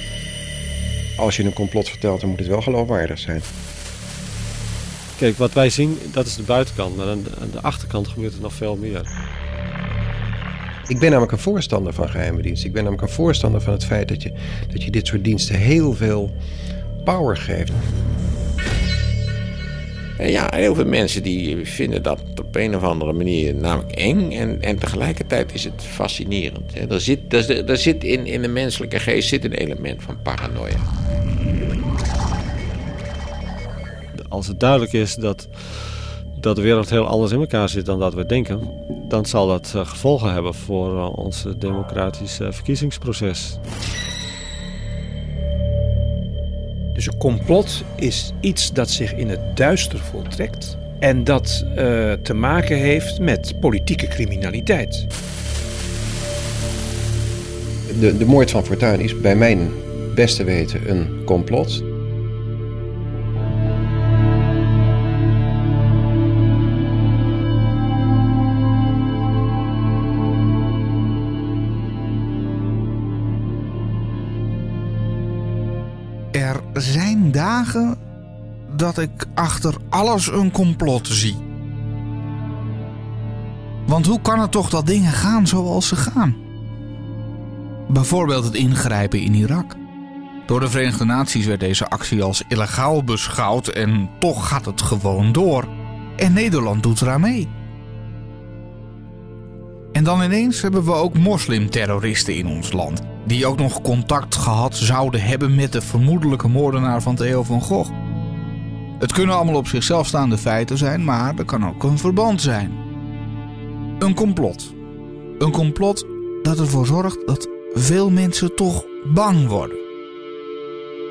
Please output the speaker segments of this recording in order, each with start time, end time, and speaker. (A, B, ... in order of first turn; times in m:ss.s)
0:01.2-0:03.5 A
0:05.2-0:09.1 B
0:10.9-0:16.4 A
0:17.0-0:17.8 A
0:20.2-0:30.9 C
0:34.2-0:43.6 B
0:47.0-0:55.1 D
0:57.9-1:01.9 A
1:16.3-1:18.0 E
1:18.7-1:21.4 E
1:23.9-1:26.4 E
1:27.9-1:29.8 E
1:30.5-1:37.5 E
1:39.9-1:47.9 E
1:49.0-1:52.8 E
1:54.0-1:54.7 E
1:55.4-1:59.8 E